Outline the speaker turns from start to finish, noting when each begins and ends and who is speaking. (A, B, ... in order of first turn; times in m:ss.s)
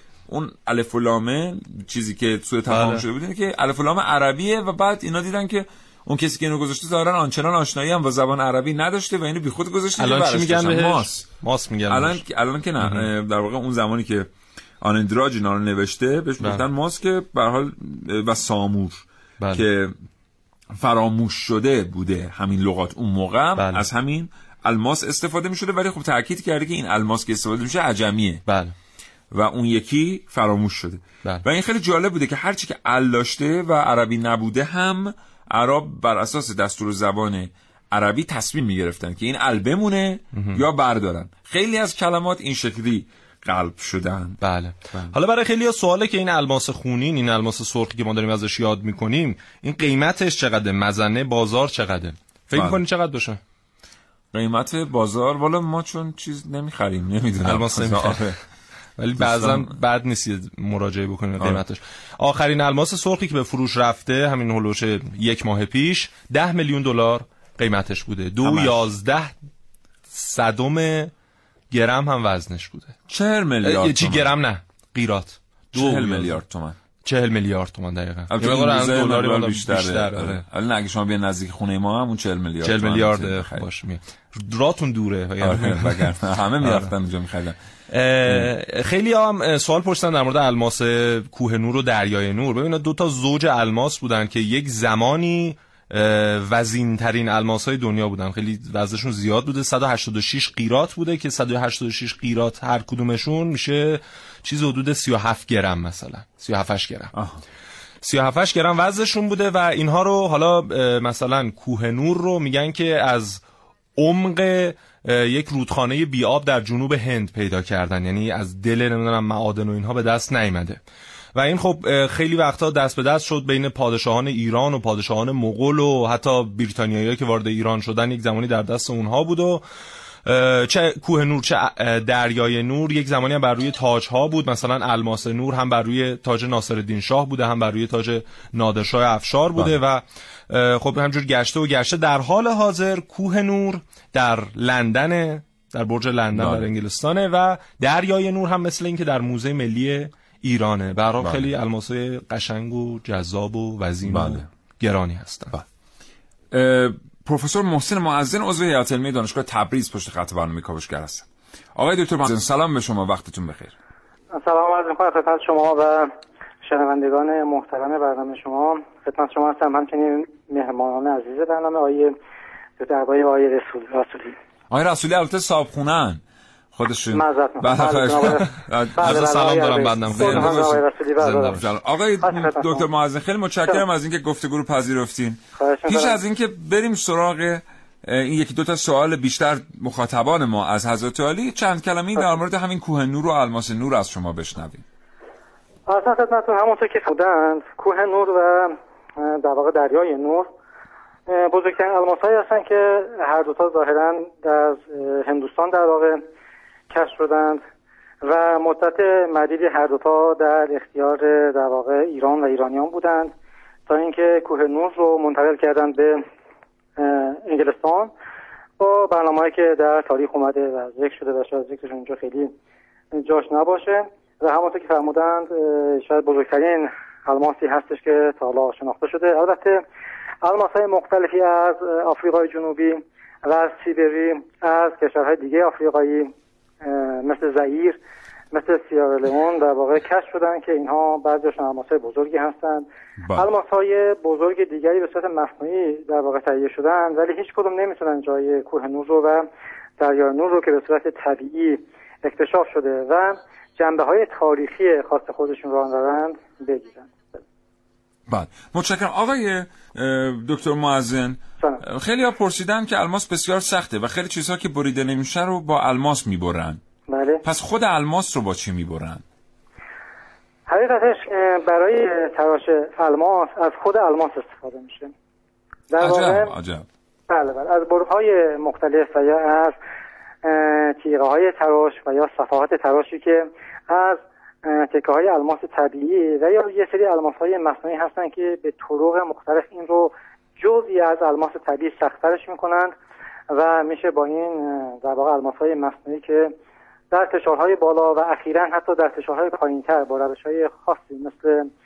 0:00.3-0:11.4 A
0:02.7-0:03.1 B
0:10.0-0:12.2 B
0:11.9-0:14.3 A
0:12.8-0:13.1 B
0:14.8-0:19.9 A
0:16.4-0:16.6 B
0:19.4-0:19.7 B
0:20.8-0:28.4 A
0:23.6-0:23.9 B
0:28.5-0:28.8 B
0:29.3-0:44.4 A
0:40.3-0:40.6 B
0:44.4-0:53.4 B
0:52.5-0:52.8 A
0:54.3-0:58.4 A
0:57.4-0:58.4 B
0:59.0-1:09.3 B
0:59.2-0:59.7 A
1:08.4-1:08.9 A
1:10.1-1:11.1 B
1:11.7-1:13.0 B
1:13.1-1:14.3 A
1:13.6-1:16.4 B
1:15.7-1:16.8 A
1:17.0-1:20.4 B
1:18.3-1:23.6 A
1:22.6-1:26.9 B
1:25.4-1:27.6 A
1:27.9-1:47.1 B
1:47.2-1:47.4 A
1:48.0-1:53.4 B
1:54.0-2:00.8 B
2:01.4-2:09.6 B
2:10.3-2:35.5 B
2:26.3-2:26.7 A
2:31.2-2:31.5 A
2:34.1-2:34.4 A
2:36.5-2:43.7 A
2:44.3-2:46.1 C
2:46.6-2:52.1 C
2:52.8-2:54.4 C
2:54.7-2:56.2 A
2:56.8-2:59.3 A
2:57.1-3:01.6 C
2:59.0-3:01.6 B
3:00.1-3:00.8 A
3:01.5-3:14.8 A
3:02.2-3:02.9 C
3:05.6-3:06.2 C
3:15.9-3:20.5 C
3:21.3-3:26.2 C
3:26.9-3:27.6 C
3:28.2-3:33.3 C
3:33.9-3:36.2 C
3:37.0-3:38.1 C
3:38.8-3:42.5 C
3:43.1-3:49.8 C
3:50.4-3:58.0 C
3:58.5-4:09.5 C
4:03.2-4:03.5 A
4:10.0-4:17.1 C
4:18.3-4:26.8 A
4:27.1-4:27.4 C
4:27.4-4:29.2 A
4:30.7-4:35.1 C
4:35.9-4:36.5 C
4:36.0-4:36.9 A
4:37.3-4:39.8 C
4:40.4-4:52.9 C
4:53.5-4:56.5 C
4:57.1-5:01.7 C